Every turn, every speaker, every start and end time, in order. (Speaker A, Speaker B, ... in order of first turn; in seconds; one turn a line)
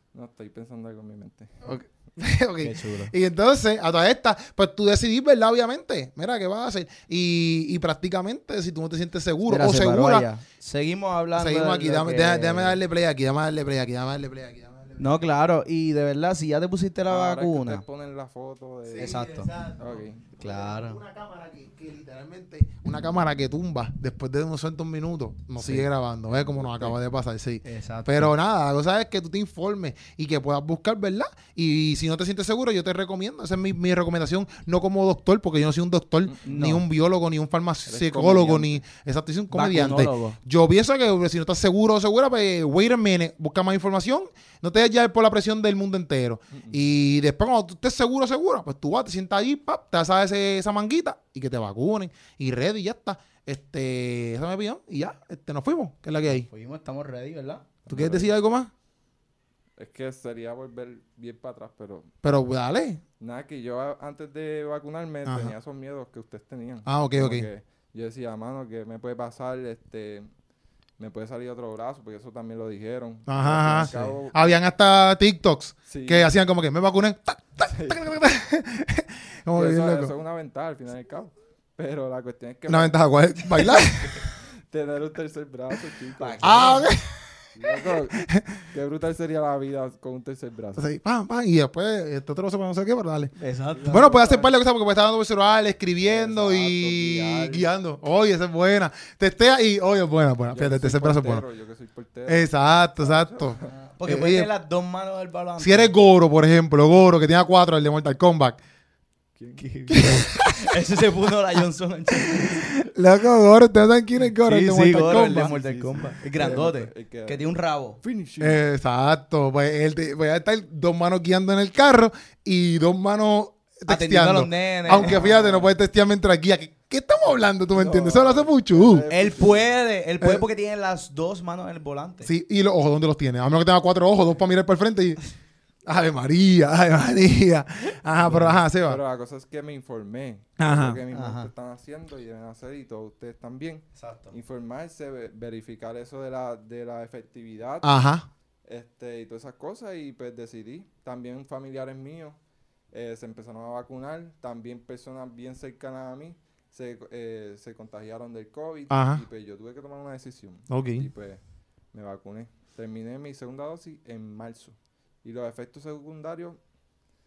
Speaker A: 0.1-1.6
Speaker B: 1.6-10.3
Speaker C: 2.6-3.1
Speaker C: 9.4-12.8
Speaker B: 11.3-15.2
Speaker C: 15.0-17.8
Speaker A: 17.1-19.2
Speaker B: 18.9-56.5
Speaker C: 19.0-19.5
Speaker A: 19.8-20.3
Speaker C: 20.4-21.0
Speaker C: 25.6-25.9
Speaker A: 26.3-27.0
Speaker C: 27.6-28.3
Speaker C: 36.4-36.9
Speaker A: 37.9-38.8
Speaker C: 39.5-40.4
Speaker A: 46.5-46.8
Speaker C: 56.3-57.7
Speaker A: 57.9-58.3
Speaker B: 57.9-58.7
Speaker A: 59.8-62.1
Speaker B: 62.2-63.0
Speaker A: 63.2-70.3
Speaker B: 65.2-65.5
Speaker B: 66.8-67.5
Speaker A: 71.0-74.6
Speaker B: 73.3-80.1
Speaker C: 73.8-74.2
Speaker A: 75.9-76.3
Speaker A: 77.7-78.0
Speaker A: 79.5-83.0
Speaker B: 82.7-84.2
Speaker A: 83.5-86.8
Speaker C: 86.2-86.8
Speaker B: 86.4-88.6
Speaker A: 87.5-90.9
Speaker B: 90.8-93.3
Speaker C: 93.4-94.1
Speaker A: 93.7-94.5
Speaker B: 93.9-101.4
Speaker A: 96.0-97.7
Speaker A: 100.5-103.7
Speaker B: 102.3-104.5
Speaker C: 103.6-105.9
Speaker B: 105.6-108.6
Speaker A: 109.3-109.7
Speaker C: 109.6-112.7
Speaker B: 109.9-110.8
Speaker B: 112.2-115.5
Speaker C: 114.4-118.0
Speaker A: 115.0-117.5
Speaker A: 118.0-118.6
Speaker B: 118.4-129.1
Speaker C: 123.9-125.7
Speaker A: 124.9-125.7
Speaker A: 127.7-129.7
Speaker C: 129.1-132.3
Speaker B: 132.2-135.2
Speaker B: 135.8-139.0
Speaker C: 138.2-138.6
Speaker A: 138.8-147.9
Speaker B: 140.6-141.0
Speaker C: 141.1-141.5
Speaker C: 143.9-144.3
Speaker B: 147.8-148.3
Speaker A: 148.7-152.4
Speaker A: 152.9-161.4
Speaker B: 158.9-159.2
Speaker B: 160.7-161.1
Speaker A: 161.9-166.6